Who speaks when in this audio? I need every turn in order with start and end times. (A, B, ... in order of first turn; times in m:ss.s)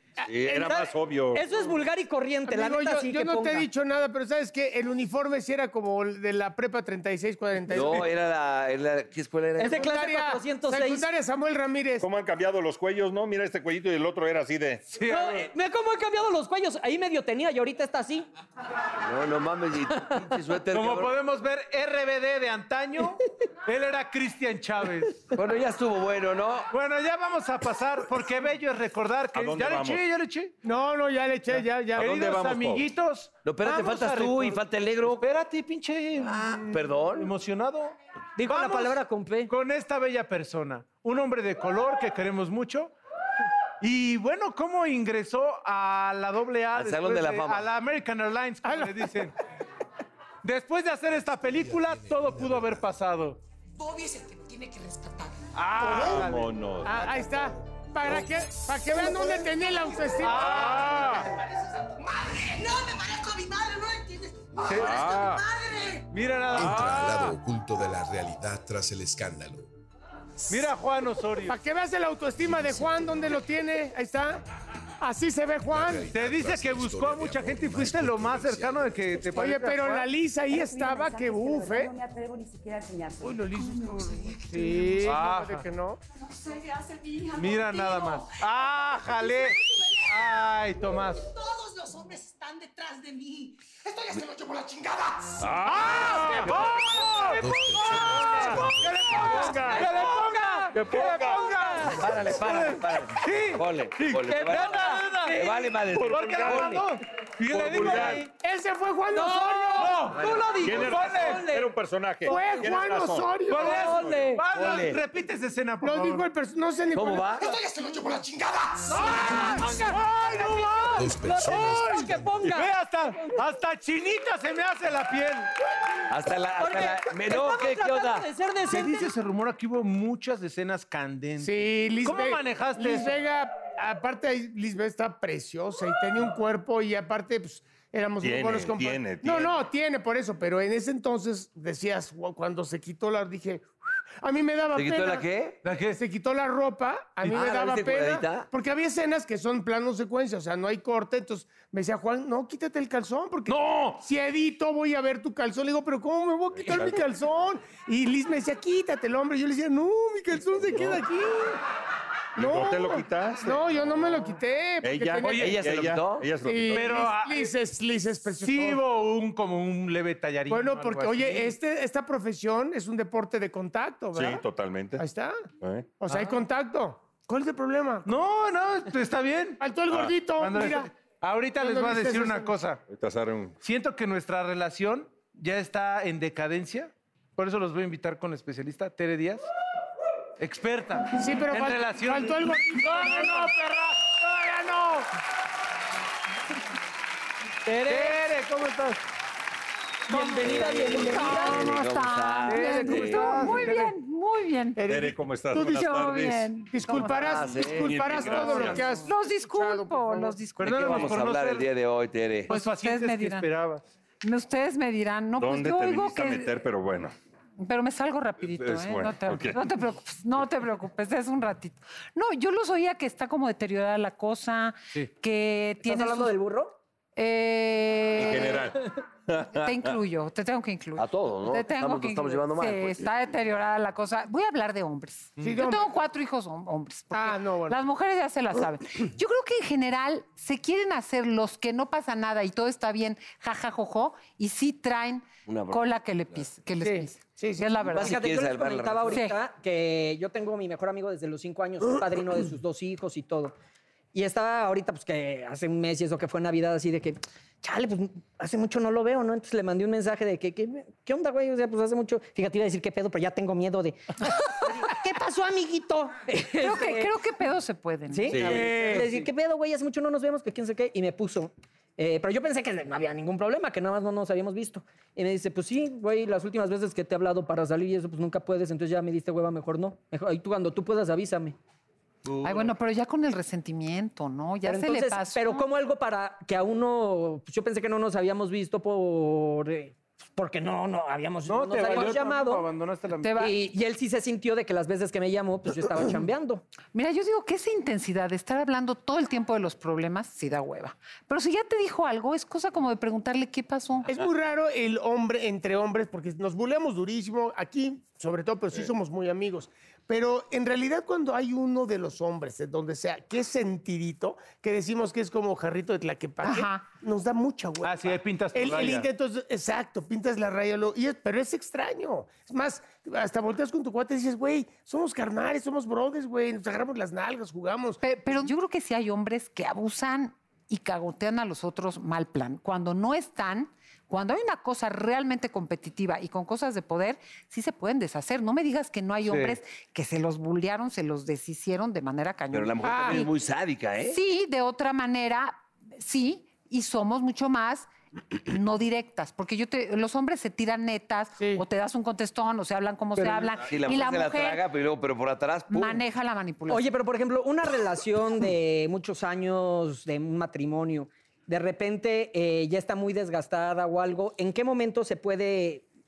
0:00.2-0:01.4 A
0:00.6-0:03.6 B
0:02.5-0:08.1 C
0:07.7-0:09.9 D
0:09.6-0:11.0 B
0:09.7-0:12.0 C
0:12.0-0:14.8 A
0:14.9-0:15.5 E
0:15.0-0:18.3 B
0:19.0-0:21.2 D
0:20.7-0:25.2 E
0:25.3-0:26.7 D
0:26.7-0:30.5 E
0:29.3-0:30.0 A
0:30.6-0:32.2 C
0:32.0-0:32.8 A
0:32.0-0:34.6 E
0:33.4-0:35.2 D
0:35.2-0:42.9 E
0:36.4-0:37.3 D
0:38.4-0:39.5 B
0:43.8-0:49.3 E
0:46.7-0:47.7 D
0:48.6-0:49.0 C
0:50.4-0:53.4 E
0:52.3-0:52.7 F
0:53.8-0:55.2 G
0:55.5-0:57.2 E
0:55.8-0:57.1 A
0:56.9-1:01.1 C
1:00.2-1:01.2 E
1:00.3-1:01.3 A
1:01.2-1:06.1 G
1:04.6-1:05.0 E
1:04.7-1:05.4 A
1:06.1-1:07.3 E
1:06.5-1:07.3 A
1:06.5-1:09.7 F
1:10.5-1:11.6 E
1:11.4-1:14.4 C
1:12.5-1:13.1 F
1:15.0-1:16.1 C
1:15.6-1:19.2 F
1:16.1-1:20.1 E
1:19.3-1:22.0 C
1:20.7-1:24.5 G
1:23.2-1:26.0 C
1:25.0-1:25.6 E
1:26.4-1:28.4 G
1:27.3-1:31.2 E
1:29.1-1:30.4 G
1:31.0-1:36.2 G
1:35.4-1:37.3 A
1:35.6-1:45.5 E
1:36.8-1:39.4 G
1:37.4-1:38.9 F
1:38.0-1:39.5 A
1:38.3-1:39.9 C
1:39.4-1:40.7 B
1:40.7-1:41.7 A
1:41.5-1:42.0 B
1:41.9-1:46.9 D
1:44.3-1:45.7 B
1:45.9-1:46.8 A
1:46.0-1:48.3 E
1:47.5-1:48.3 A
1:47.8-1:48.1 D
1:48.3-1:50.0 C
1:49.1-1:51.7 B
1:49.8-1:51.5 E
1:50.1-1:50.7 D
1:50.6-1:54.3 A
1:52.2-1:53.9 C
1:52.3-1:52.7 B
1:53.5-1:56.3 E
1:53.5-1:54.4 B
1:54.5-1:55.0 D
1:55.8-1:57.3 C
1:56.9-1:57.6 D
1:57.4-1:59.6 G
1:58.9-2:05.5 E
1:59.0-2:03.4 B
2:00.9-2:02.4 F
2:06.1-2:08.3 D
2:06.6-2:09.1 B
2:08.7-2:13.2 E
2:11.4-2:23.7 C
2:18.2-2:19.6 A
2:24.2-2:25.2 C
2:24.7-2:25.6 D
2:25.6-2:26.0 E
2:25.8-2:41.6 C
2:27.2-2:28.5 D
2:33.5-2:34.0 E
2:36.6-2:37.0 A
2:40.7-2:41.0 E
2:42.4-2:44.2 A
2:42.4-2:45.5 C
2:44.8-2:47.1 A
2:45.2-2:45.5 E
2:45.4-2:46.3 D
2:46.4-2:48.8 C
2:46.7-2:47.5 E
2:48.4-2:51.5 E
2:50.5-2:54.4 C
2:54.1-2:55.0 A
2:55.0-2:55.4 C
2:55.6-2:55.9 A
2:56.0-2:58.1 C
2:56.1-2:56.4 E
2:58.0-2:59.6 E
2:59.6-3:00.9 C
3:00.3-3:02.8 E
3:01.6-3:02.6 C
3:02.9-3:03.5 A
3:03.6-3:09.5 E
3:10.4-3:13.5 E
3:11.1-3:15.1 C
3:17.7-3:19.0 E
3:17.7-3:18.2 B
3:20.1-3:21.7 B
3:20.2-3:23.6 D
3:20.4-3:24.8 H
3:22.4-3:23.9 E
3:24.8-3:25.8 C
3:24.9-3:26.5 A
3:25.6-3:27.4 H
3:26.7-3:30.4 C
3:27.0-3:28.8 D
3:27.7-3:28.8 A
3:28.4-3:31.1 H
3:30.6-3:31.7 E
3:30.6-3:32.5 D
3:32.5-3:33.8 E
3:32.5-3:33.5 H
3:34.2-3:36.5 H
3:35.4-3:37.1 A
3:37.6-3:46.3 H
3:38.4-3:39.6 A
3:45.8-3:46.8 B
3:47.2-3:48.8 H
3:48.1-3:49.9 A
3:49.5-4:08.2 H
3:51.0-3:53.1 D
3:55.4-3:55.9 C
3:57.1-3:57.8 C
4:05.4-4:06.4 D
4:06.8-4:07.8 C
4:07.8-4:09.2 D
4:07.9-4:13.5 B
4:09.1-4:09.4 H
4:14.1-4:27.1 B
4:26.5-4:28.5 H
4:28.1-4:41.6 B
4:28.3-4:28.7 A
4:28.4-4:29.2 E
4:42.4-4:42.7 E
4:42.4-4:45.6 H
4:44.6-4:52.7 B
4:51.4-4:53.4 E
4:53.2-4:53.5 H
4:53.3-4:56.6 B
4:56.9-5:04.1 H
5:04.0-5:28.0 C
5:16.4-5:16.9 H
5:17.8-5:19.1 E
5:28.0-5:43.3 H
5:39.2-5:39.6 E
5:42.5-5:44.2 D
5:42.8-5:43.3 C
5:44.1-5:47.9 H
5:48.4-5:54.6 H
5:51.4-5:51.6 C
5:53.2-5:56.0 D
5:55.7-5:56.8 H
5:56.7-6:05.8 B